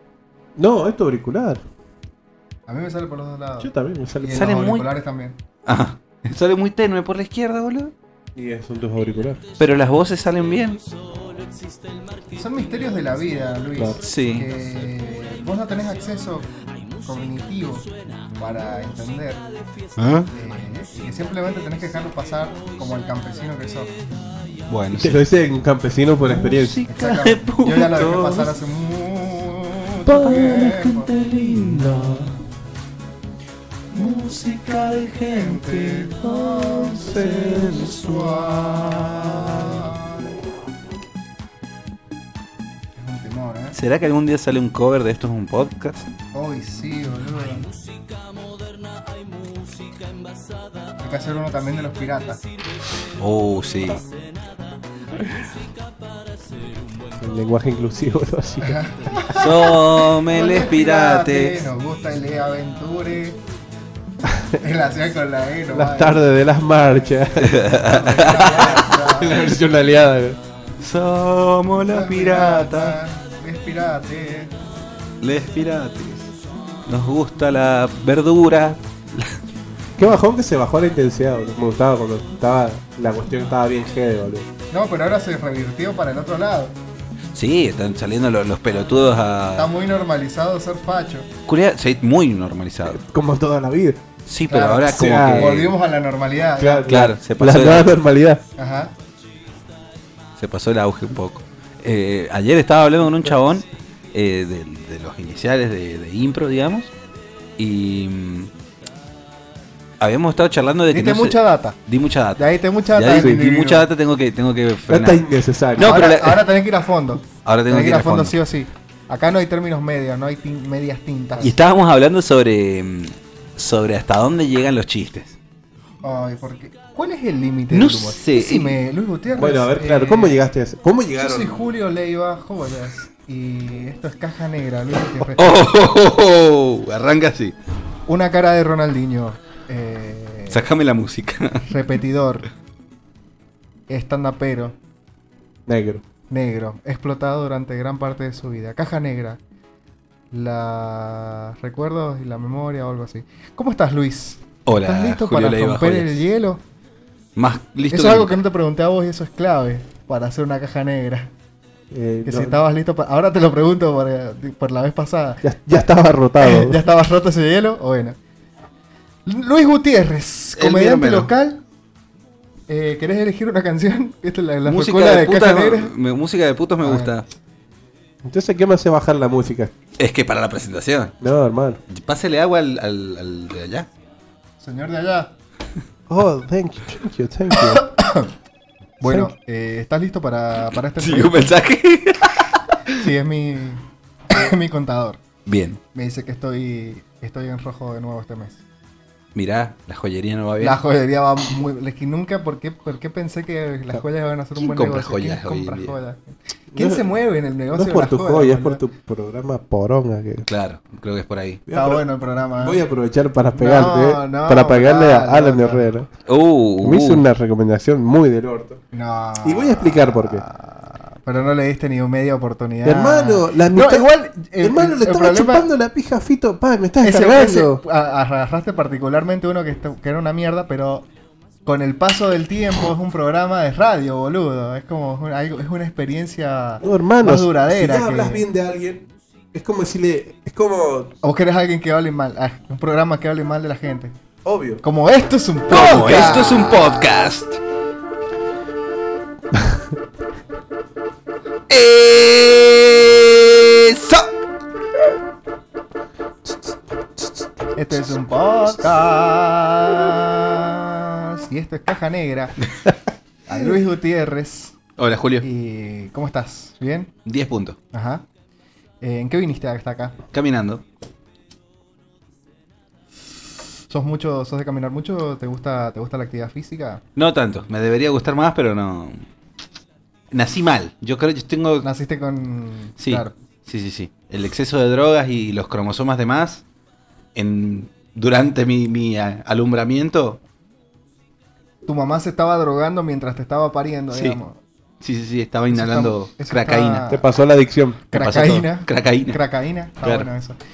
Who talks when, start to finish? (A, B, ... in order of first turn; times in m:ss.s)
0:00.6-0:01.6 A
0:02.7-0:05.4 B
0:03.6-0:04.6 A
0:04.3-0:04.9 C
0:05.7-0:07.9 C
0:08.4-0:09.4 A
0:09.6-0:10.8 C
0:12.3-0:19.5 B
0:13.8-0:14.0 A
0:14.0-0:14.5 C
0:20.0-0:20.3 C
0:20.3-0:24.0 B
0:24.7-0:25.2 C
0:25.0-0:26.9 A
0:26.3-0:28.5 C
0:26.9-0:31.1 B
0:30.0-0:32.4 C
0:33.9-0:39.9 C
0:35.3-0:40.3 B
0:43.0-0:43.8 B
0:43.7-0:46.1 C
0:46.3-0:47.7 B
0:51.0-0:52.4 B
0:53.2-0:54.0 C
0:57.2-0:58.8 A
0:58.6-1:03.4 B
0:59.3-1:01.6 C
1:04.6-1:09.6 B
1:05.7-1:07.7 A
1:07.4-1:08.8 C
1:08.3-1:10.4 A
1:10.8-1:13.0 C
1:11.8-1:14.5 B
1:15.2-1:16.3 C
1:16.9-1:19.4 C
1:20.0-1:24.5 A
1:24.7-1:26.8 B
1:27.3-1:29.7 C
1:29.6-1:31.3 B
1:31.5-1:33.0 C
1:32.9-1:34.0 A
1:34.3-1:35.7 C
1:34.5-1:36.9 B
1:34.9-1:35.7 A
1:36.6-1:38.4 A
1:36.9-1:37.9 C
1:38.6-1:38.9 B
1:40.4-1:46.9 C
1:47.6-1:48.5 C
1:50.0-1:55.3 C
1:50.9-1:51.8 B
1:52.4-1:53.9 B
1:54.9-1:56.0 A
1:55.8-1:56.4 C
1:55.8-2:01.6 B
1:57.4-1:58.4 C
2:01.4-2:05.4 C
2:06.0-2:10.4 B
2:07.7-2:08.8 C
2:09.4-2:11.6 A
2:11.2-2:15.6 B
2:15.4-2:17.6 C
2:18.1-2:20.6 B
2:20.5-2:21.7 C
2:21.7-2:22.5 B
2:23.9-2:24.8 B
2:25.7-2:26.0 A
2:26.3-2:29.4 B
2:30.3-2:36.6 B
2:34.7-2:36.2 C
2:37.4-2:38.4 C
2:37.9-2:41.3 B
2:41.9-2:42.6 A
2:42.2-2:45.4 B
2:45.4-2:46.8 A
2:46.4-2:48.2 B
2:49.3-2:51.6 B
2:50.6-2:51.3 C
2:52.7-2:55.9 B
2:54.6-2:57.3 C
2:56.8-2:57.1 B
2:58.3-2:59.7 A
3:00.0-3:01.1 C
3:01.2-3:01.8 A
3:01.9-3:03.9 C
3:04.6-3:05.3 B
3:06.1-3:07.9 A
3:07.5-3:08.3 B
3:09.0-3:11.5 B
3:11.0-3:13.0 C
3:12.9-3:15.2 B
3:15.5-3:15.8 C
3:15.9-3:18.6 B
3:19.4-3:20.8 C
3:20.6-3:28.8 B
3:24.6-3:26.0 C
3:26.7-3:27.1 A
3:27.7-3:30.5 A
3:30.5-3:31.6 C
3:31.7-3:32.0 A
3:31.7-3:32.8 B
3:32.6-3:36.1 A
3:33.6-3:35.9 B
3:36.3-3:37.2 C
3:36.8-3:38.8 A
3:38.9-3:45.7 B
3:39.4-3:40.4 A
3:42.8-3:47.8 A
3:47.0-3:51.1 B
3:51.6-3:58.5 B
3:56.8-4:01.1 A
4:01.2-4:04.2 B
4:04.4-4:04.8 A
4:04.8-4:07.3 B
4:05.7-4:07.6 C
4:11.7-4:14.3 C
4:17.8-4:22.6 B
4:23.5-4:24.8 B
4:25.0-4:25.5 C
4:25.4-4:27.1 B
4:27.2-4:27.8 C
4:27.9-4:28.2 B
4:29.0-4:30.2 B
4:30.3-4:30.8 C
4:33.9-4:37.0 B
4:37.2-4:39.2 C
4:40.3-4:41.9 C
4:41.8-4:43.4 B
4:43.0-4:46.6 C
4:47.4-4:50.4 C
4:51.9-4:54.6 B
4:54.1-4:54.4 C
4:55.0-4:57.1 C
4:55.7-4:57.2 B
4:57.1-4:58.0 A
4:58.1-5:00.6 B
4:58.1-4:59.4 C
5:00.0-5:00.3 C